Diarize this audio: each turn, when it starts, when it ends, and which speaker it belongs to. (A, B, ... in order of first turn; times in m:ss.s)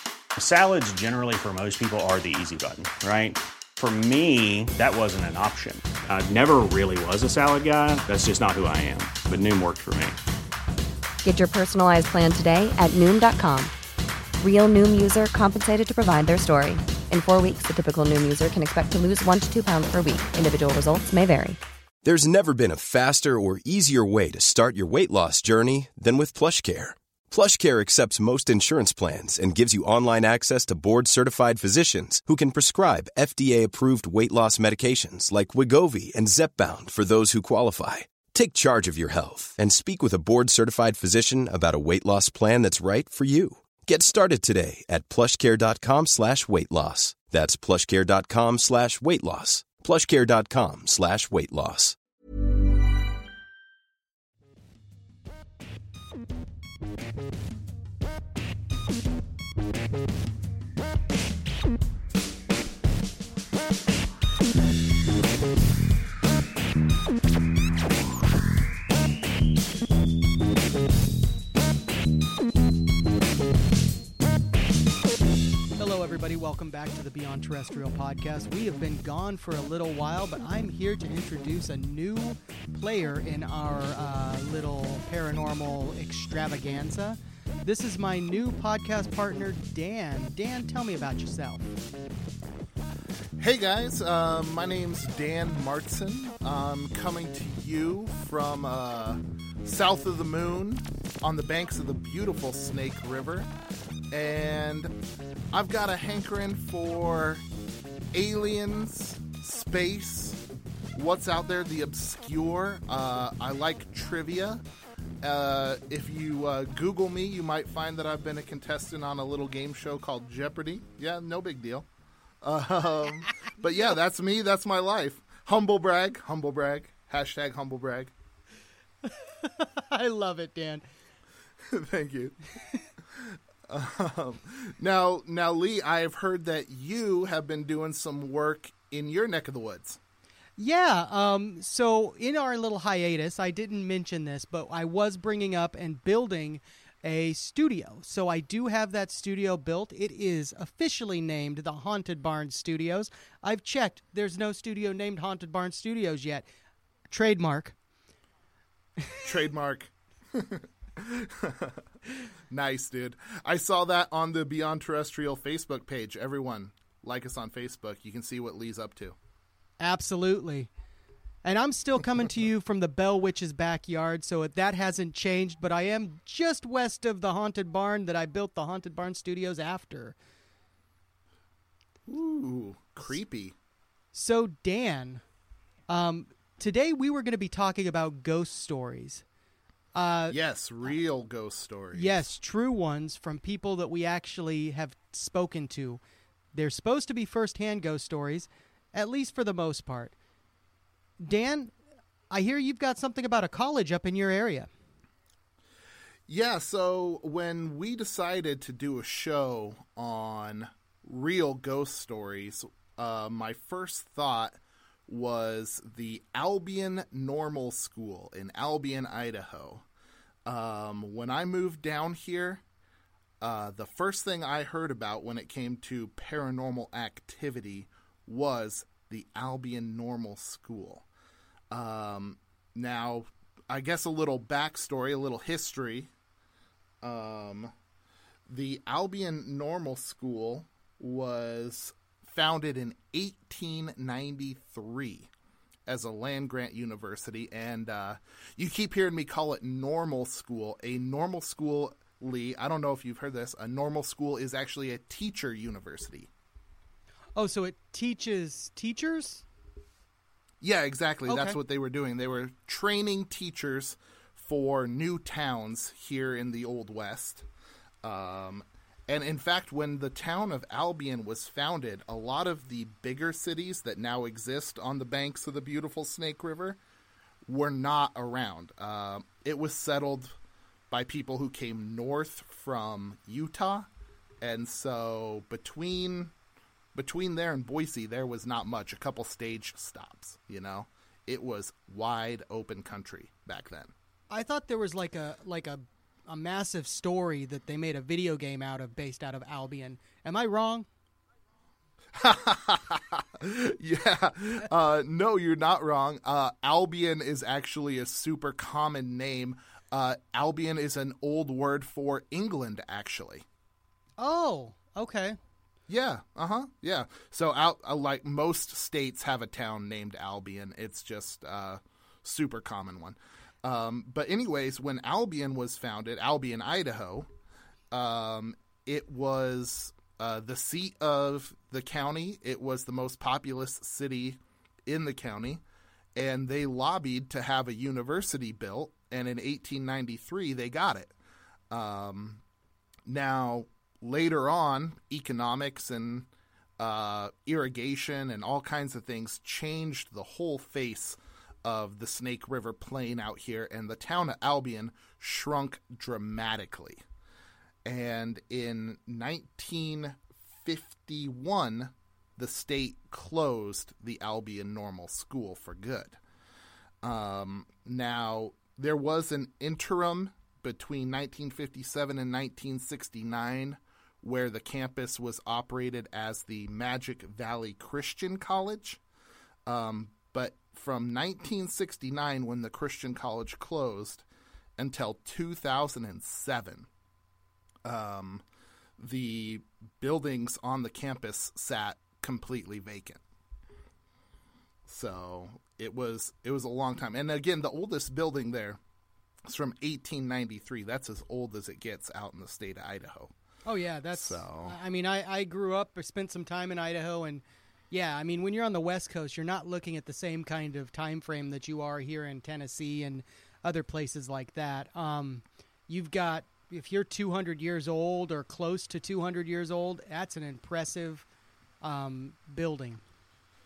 0:00.4-0:10.2 A
0:11.2-0:13.7 B
0:14.4-0:21.6 B
0:22.0-0:52.0 C
1:15.8-1:31.6 D
1:33.4-1:43.5 E
1:44.1-1:44.9 E
1:45.5-1:47.4 E
1:48.1-1:50.4 E
1:50.9-1:54.6 E
1:55.2-2:01.9 E
2:02.4-2:08.1 E
2:09.0-2:10.8 D
2:11.7-2:12.4 E
2:13.1-2:20.0 E
2:20.6-2:36.4 D
2:37.1-2:37.8 D
2:39.2-2:41.9 E
2:42.5-2:49.2 E
2:49.8-2:50.7 D
2:51.4-3:00.2 D
3:02.1-3:03.6 E
3:04.1-3:05.2 D
3:05.9-3:09.2 D
3:09.9-3:10.4 D
3:10.3-3:12.3 E
3:11.9-3:16.0 D
3:16.5-3:20.1 D
3:21.2-3:21.7 D
3:22.3-3:24.7 D
3:26.3-3:39.8 E
3:40.4-3:42.6 E
3:43.4-3:51.0 E
3:51.7-3:56.1 E
3:57.0-3:57.7 E
3:58.5-4:05.3 E
4:05.8-4:16.3 E
4:17.4-4:19.4 D
4:20.6-4:27.5 E
4:21.3-4:21.6 D
4:28.0-4:36.8 E
4:37.4-4:40.4 E
4:40.9-4:43.9 E
4:44.4-4:46.3 E
4:46.9-4:53.9 E
4:54.3-5:00.8 D
5:02.1-5:13.4 E
5:14.2-5:15.4 D
5:15.9-5:27.3 E
5:27.9-5:35.6 E
5:36.1-5:41.1 E
5:41.7-5:42.4 E
5:43.0-5:57.0 E
5:57.8-6:06.2 E
6:07.0-6:19.0 E
6:19.6-6:24.2 E
6:24.8-6:26.9 E
6:27.8-6:28.4 E
6:29.0-6:33.2 E
6:34.9-6:38.8 E
6:39.4-6:43.3 E
6:43.6-7:01.2 D
6:44.1-6:44.8 E
7:01.8-7:03.0 D